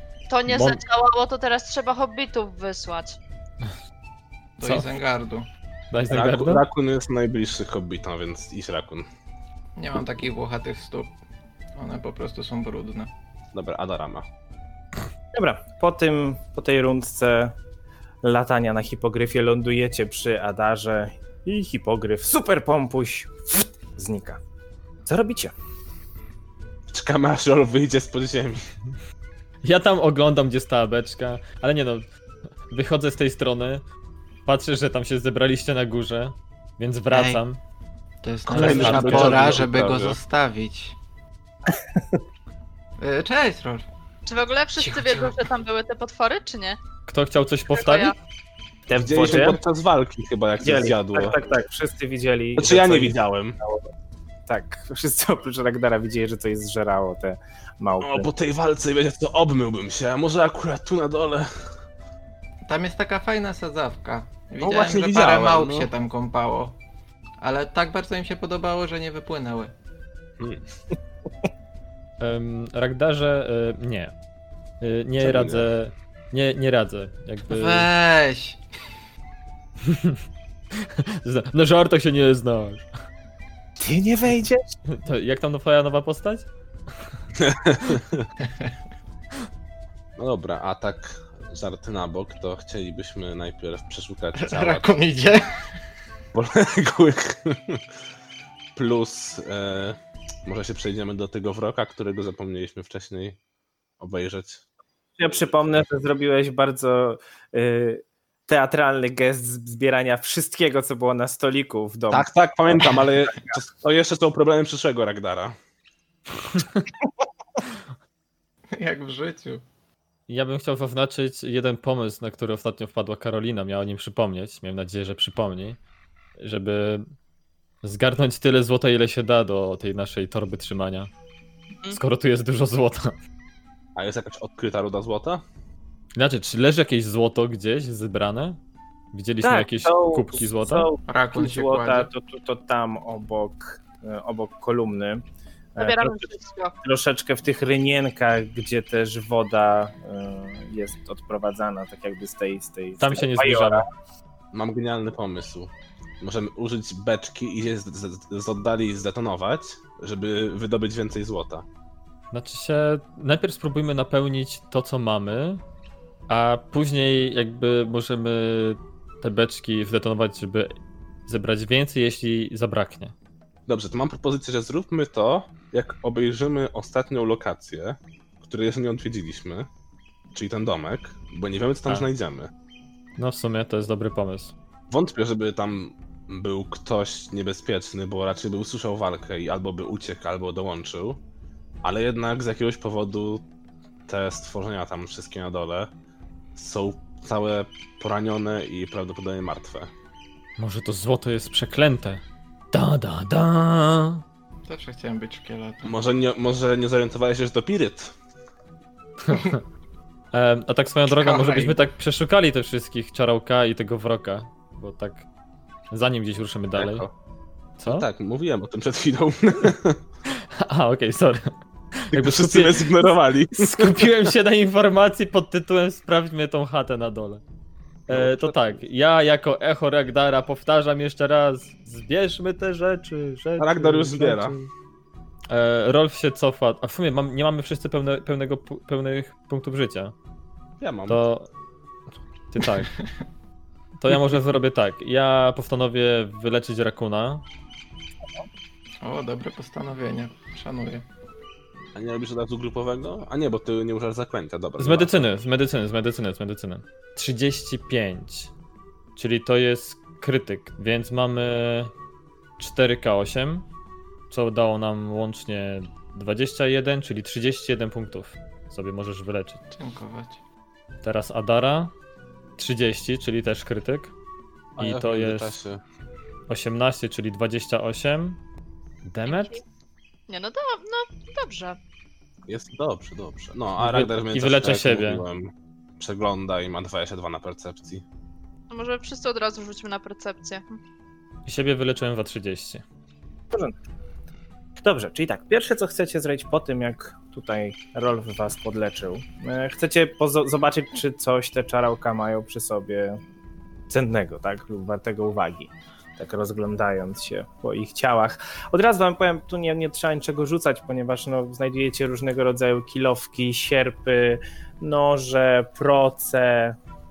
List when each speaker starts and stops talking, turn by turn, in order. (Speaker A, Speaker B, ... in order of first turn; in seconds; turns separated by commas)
Speaker A: 0.3-3.1, Speaker B: 0.5-0.8, Speaker C: 4.6-5.5, Speaker B: 5.9-6.6, Speaker D: 6.1-9.1, Speaker C: 9.8-11.1, Speaker C: 11.8-13.1, Speaker D: 13.5-14.2, Speaker E: 15.3-17.5, Speaker E: 18.2-24.4, Speaker E: 25.1-25.5, Speaker D: 26.9-28.6, Speaker B: 29.6-32.0, Speaker B: 32.7-33.8, Speaker B: 34.5-37.6, Speaker C: 37.1-37.4, Speaker C: 38.2-41.0, Speaker D: 38.5-40.2, Speaker B: 38.5-39.6, Speaker E: 41.7-42.2, Speaker C: 43.0-43.9, Speaker A: 44.2-46.8, Speaker C: 44.8-45.4, Speaker B: 47.1-48.1, Speaker A: 47.7-48.1, Speaker E: 48.9-49.6, Speaker D: 48.9-51.4, Speaker E: 50.6-53.8, Speaker D: 52.5-53.6, Speaker E: 54.5-58.3, Speaker D: 58.0-61.7, Speaker C: 62.6-66.8, Speaker D: 64.6-65.9, Speaker C: 67.4-69.7, Speaker D: 70.4-70.6, Speaker B: 72.2-74.1, Speaker B: 74.8-77.9, Speaker D: 75.2-75.7, Speaker C: 77.5-78.6, Speaker B: 79.8-80.2, Speaker B: 80.7-82.8, Speaker E: 83.8-84.7, Speaker B: 84.9-86.5, Speaker D: 87.3-88.3, Speaker D: 90.2-94.9, Speaker C: 94.3-95.6, Speaker D: 96.3-97.8, Speaker D: 98.7-103.4, Speaker D: 104.0-104.6, Speaker E: 105.2-113.5, Speaker D: 112.1-115.5, Speaker C: 118.7-119.6, Speaker B: 120.3-125.8, Speaker B: 126.4-127.0, Speaker B: 127.8-131.1, Speaker B: 131.9-133.1, Speaker D: 133.9-135.4, Speaker B: 136.2-138.6, Speaker B: 139.1-140.9, Speaker E: 139.4-145.2, Speaker C: 141.1-142.1, Speaker E: 145.8-146.3, Speaker A: 145.8-146.7, Speaker E: 146.8-153.8, Speaker B: 153.0-153.8, Speaker D: 154.5-155.7, Speaker D: 156.2-161.6, Speaker B: 162.3-165.6, Speaker B: 166.3-170.7, Speaker B: 171.3-173.1, Speaker D: 173.7-179.7, Speaker D: 180.3-182.5, Speaker B: 183.2-184.5, Speaker D: 184.9-191.2, Speaker D: 191.8-193.4, Speaker D: 194.1-195.9, Speaker D: 196.5-199.9, Speaker B: 200.6-204.2, Speaker C: 204.7-205.9, Speaker D: 205.8-208.1, Speaker B: 209.2-209.6, Speaker B: 210.3-215.2, Speaker C: 211.1-211.8, Speaker B: 215.9-217.0, Speaker D: 216.8-217.1, Speaker B: 217.8-218.1, Speaker D: 217.8-220.0, Speaker B: 220.6-227.4, Speaker D: 222.1-224.1, Speaker D: 228.1-228.8, Speaker B: 228.1-234.7, Speaker D: 233.6-234.6, Speaker B: 235.5-240.1, Speaker D: 240.8-241.2, Speaker B: 241.1-241.5, Speaker B: 242.5-242.9, Speaker B: 244.0-247.4, Speaker C: 249.0-251.0, Speaker D: 251.9-255.2, Speaker B: 254.8-258.5, Speaker B: 259.1-261.9, Speaker B: 262.6-263.6, Speaker B: 264.3-269.6, Speaker C: 269.7-270.4, Speaker B: 271.0-271.9, Speaker B: 272.6-274.1, Speaker D: 274.8-275.8, Speaker B: 274.8-275.6, Speaker B: 276.5-278.4, Speaker B: 279.0-279.6, Speaker A: 279.3-279.6, Speaker A: 280.3-281.8, Speaker D: 282.4-288.0, Speaker B: 283.8-285.2, Speaker A: 288.7-290.8, Speaker B: 291.4-292.8, Speaker E: 294.8-303.2, Speaker E: 303.9-316.8